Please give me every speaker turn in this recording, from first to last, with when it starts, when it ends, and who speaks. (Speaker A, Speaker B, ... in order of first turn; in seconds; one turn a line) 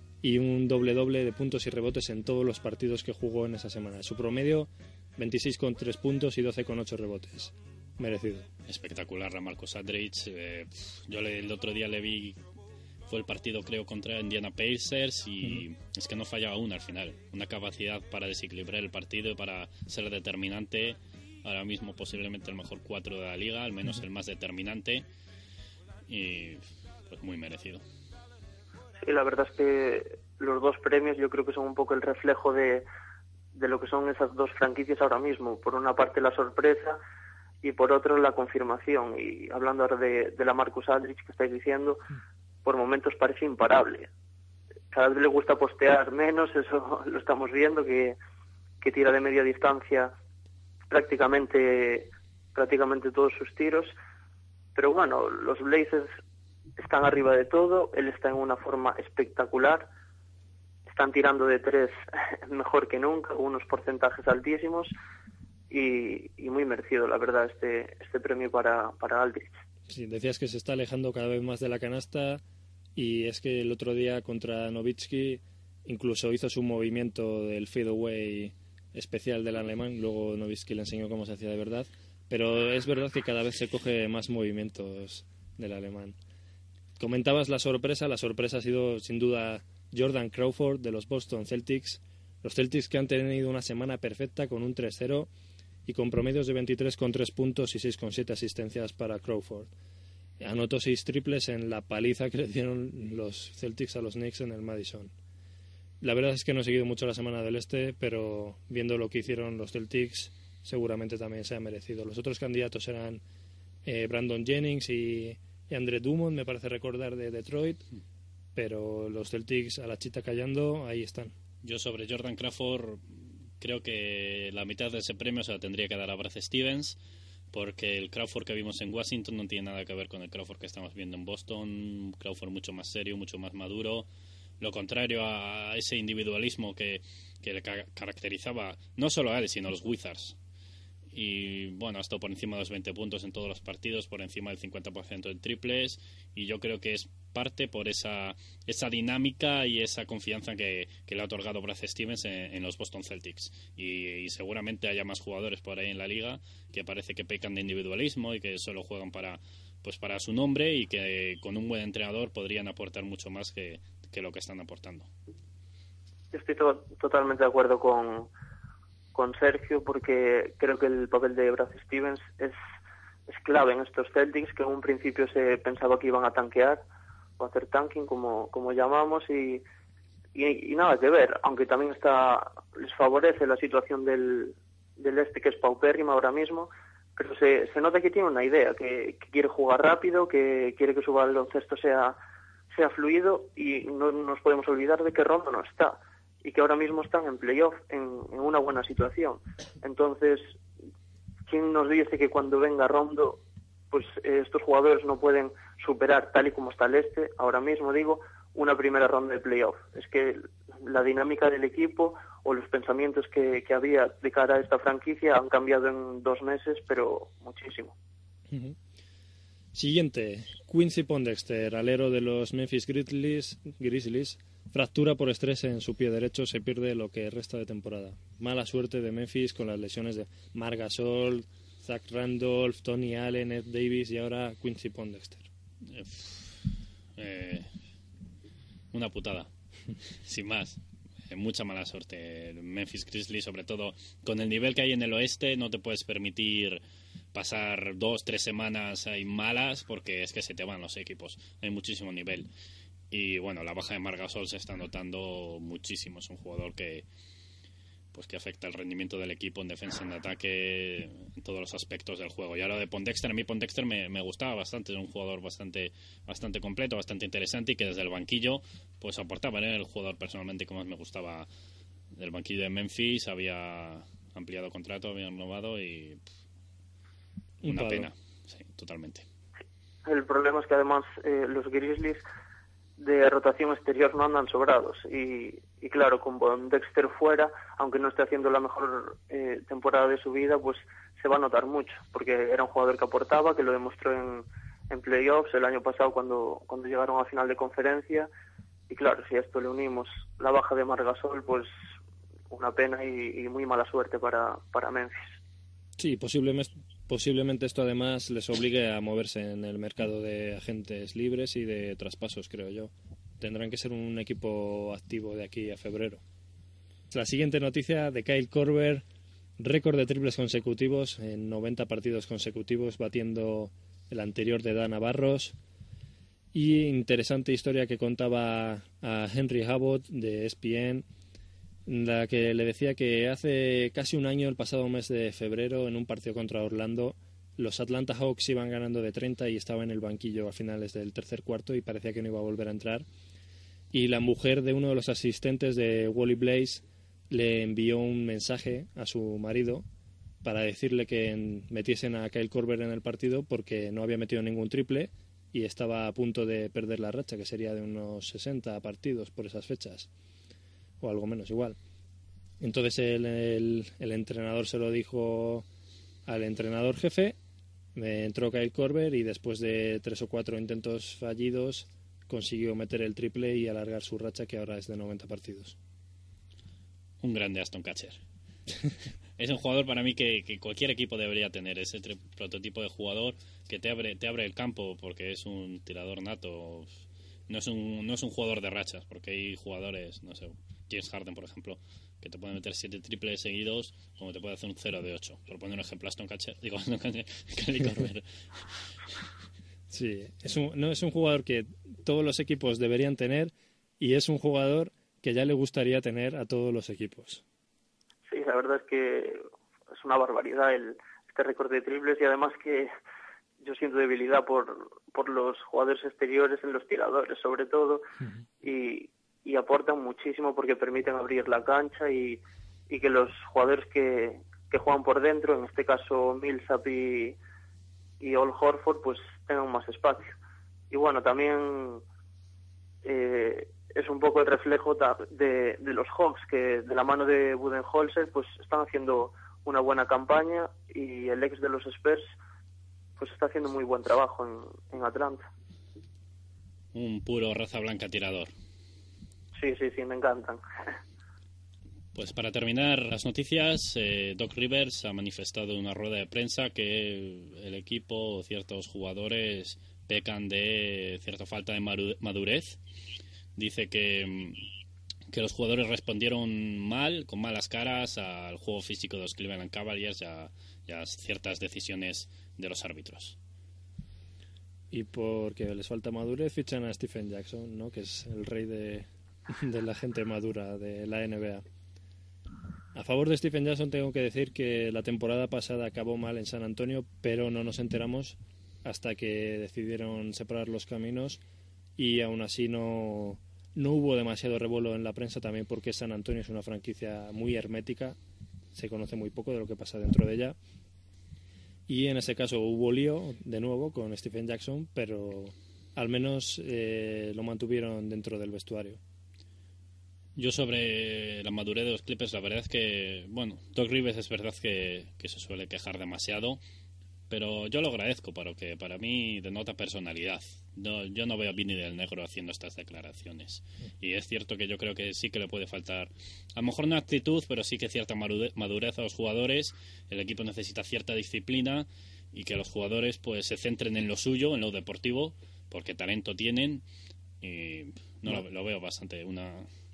Speaker A: 0.2-8.5
Speaker B: 8.7-12.4
Speaker B: 13.1-25.0
Speaker B: 26.1-27.8
Speaker C: 29.0-32.9
Speaker C: 33.5-37.0
Speaker C: 37.6-42.0
Speaker C: 42.6-44.1
Speaker C: 44.9-48.2
Speaker C: 48.8-50.1
Speaker C: 50.9-54.0
Speaker C: 54.7-56.1
Speaker C: 56.8-59.9
Speaker C: 60.9-64.9
Speaker C: 65.7-69.6
Speaker A: 69.9-72.4
Speaker A: 72.9-86.2
Speaker A: 87.0-95.3
Speaker A: 95.8-99.7
Speaker A: 100.4-105.1
Speaker A: 106.0-113.2
Speaker A: 113.8-117.8
Speaker A: 118.5-121.3
Speaker B: 121.6-127.0
Speaker B: 127.5-134.1
Speaker B: 134.6-140.3
Speaker B: 141.1-165.1
Speaker C: 166.3-168.3
Speaker C: 169.1-172.6
Speaker C: 173.3-176.8
Speaker C: 177.4-179.6
Speaker C: 180.3-192.2
Speaker C: 192.7-200.6
Speaker C: 201.5-217.9
Speaker A: 218.5-218.8
Speaker A: 219.7-235.5
Speaker B: 235.8-236.6
Speaker B: 237.2-237.7
Speaker B: 238.9-239.5
Speaker B: 240.2-246.8
Speaker B: 247.3-252.5
Speaker B: 253.1-257.0
Speaker B: 258.1-271.5
Speaker B: 272.1-276.2
Speaker A: 277.6-278.1
Speaker B: 277.6-279.2
Speaker C: 280.0-282.2
Speaker C: 283.0-298.3
Speaker C: 298.9-301.7
Speaker C: 302.5-305.3
Speaker A: 306.0-316.2
Speaker A: 317.1-319.0
Speaker A: 319.6-325.6
Speaker A: 326.5-331.1
Speaker A: 331.9-343.1
Speaker A: 343.9-349.8
Speaker A: 350.4-360.1
Speaker A: 361.0-361.8
Speaker A: 362.6-365.6
Speaker A: 366.2-367.4
Speaker A: 367.9-375.8
Speaker B: 377.2-378.2
Speaker B: 379.4-398.6
Speaker A: 399.9-407.4
Speaker C: 408.3-409.4
Speaker C: 409.9-412.9
Speaker C: 413.6-418.1
Speaker C: 418.6-427.4
Speaker C: 428.2-430.4
Speaker C: 430.9-432.0
Speaker C: 433.0-442.3
Speaker C: 443.2-445.4
Speaker B: 446.9-448.5
Speaker C: 449.6-450.6
Speaker B: 452.1-462.8
Speaker B: 463.6-464.6
Speaker B: 465.3-473.4
Speaker A: 474.9-481.6
Speaker A: 482.9-491.4
Speaker A: 492.0-498.2
Speaker A: 498.7-500.6
Speaker A: 501.9-509.0
Speaker B: 510.4-516.6
Speaker B: 517.3-536.8
Speaker B: 537.4-539.7